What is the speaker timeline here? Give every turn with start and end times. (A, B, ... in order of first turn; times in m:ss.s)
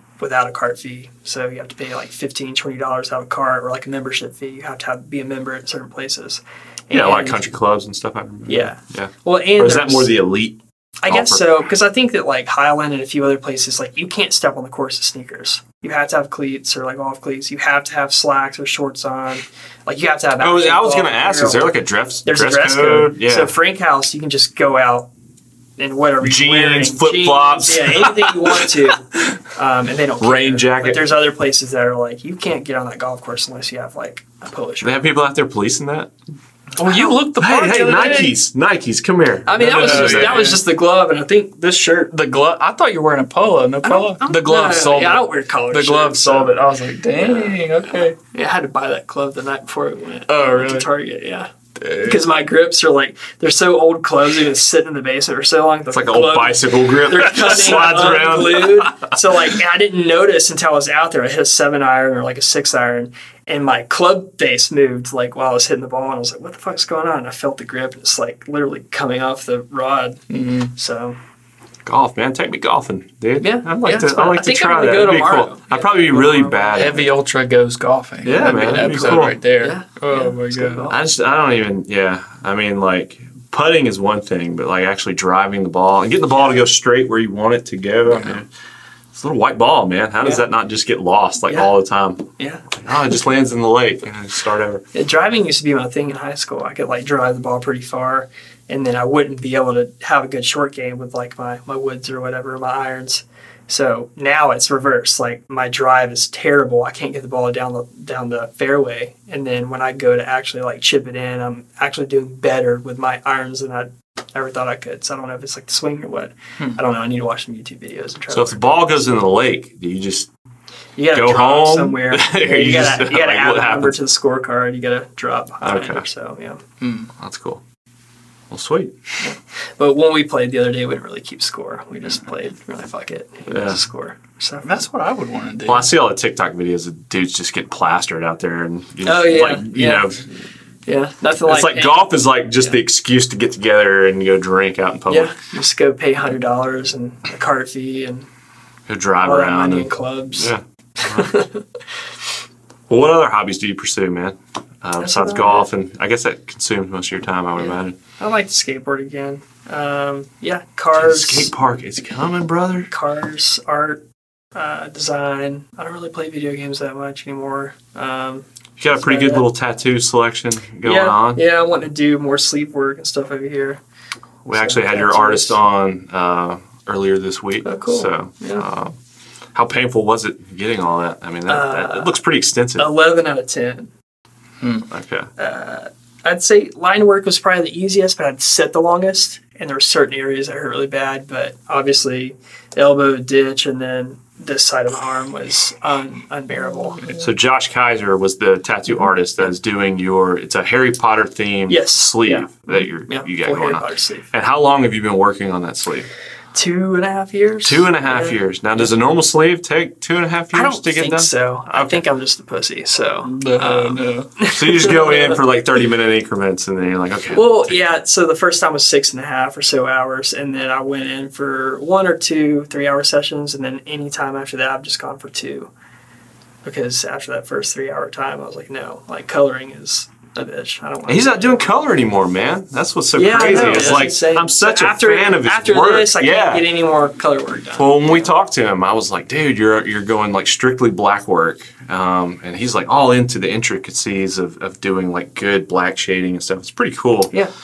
0:00.2-0:07.4 A
0:06.9-0:11.4 B
0:08.5-0:10.2 A
0:11.0-0:25.1 A
0:20.4-0:23.5 B
0:25.8-0:35.1 A
0:26.2-0:28.8 B
0:30.2-0:31.1 B
0:34.8-0:36.1 B
0:36.8-0:38.3 C
0:36.8-0:37.2 A
0:37.4-0:40.5 B
0:39.5-0:42.1 A
0:39.6-0:40.6 C
0:42.1-0:48.2 C
0:43.8-0:46.6 A
0:47.1-1:11.2 A
0:50.3-0:50.9 C
0:51.8-0:52.2 C
0:55.9-0:59.4 B
1:10.3-1:10.7 C
1:11.8-1:17.1 B
1:13.4-1:17.1 A
1:16.8-1:20.9 C
1:18.2-1:19.4 B
1:18.6-1:21.0 A
1:20.9-1:28.5 B
1:28.1-1:28.4 C
1:29.1-1:34.8 B
1:31.5-1:31.7 A
1:32.4-1:32.6 A
1:34.9-1:58.8 A
1:58.3-2:00.3 B
2:01.0-2:06.6 A
2:01.1-2:04.0 B
2:05.6-2:06.0 B
2:06.8-2:07.1 C
2:07.2-2:07.6 B
2:08.5-2:09.0 B
2:09.2-2:14.7 A
2:13.5-2:13.8 B
2:14.6-2:15.9 C
2:15.6-2:20.2 B
2:19.0-2:20.1 A
2:20.9-2:22.8 A
2:21.4-2:25.3 B
2:25.1-2:28.3 A
2:28.9-2:31.3 B
2:29.2-2:31.6 A
2:32.9-2:38.0 B
2:35.0-2:35.7 A
2:37.6-2:41.5 A
2:41.0-2:42.9 B
2:42.9-2:44.0 A
2:44.6-2:49.5 A
2:48.8-2:51.4 B
2:50.8-2:53.8 A
2:54.4-2:59.0 B
2:54.5-2:55.6 A
2:57.6-2:58.7 A
2:59.5-3:02.9 B
3:01.5-3:02.2 A
3:02.8-3:03.9 A
3:04.6-3:04.9 C
3:04.9-3:05.3 B
3:05.4-3:17.2 A
3:17.1-3:26.1 B
3:21.7-3:22.5 A
3:23.1-3:24.3 A
3:26.5-3:28.9 A
3:27.6-3:32.0 B
3:30.5-3:35.4 A
3:33.2-3:34.3 C
3:34.5-3:37.8 B
3:37.3-3:45.7 A
3:46.6-3:51.7 A
3:51.1-3:56.7 B
3:53.2-3:58.3 A
3:57.8-4:07.3 B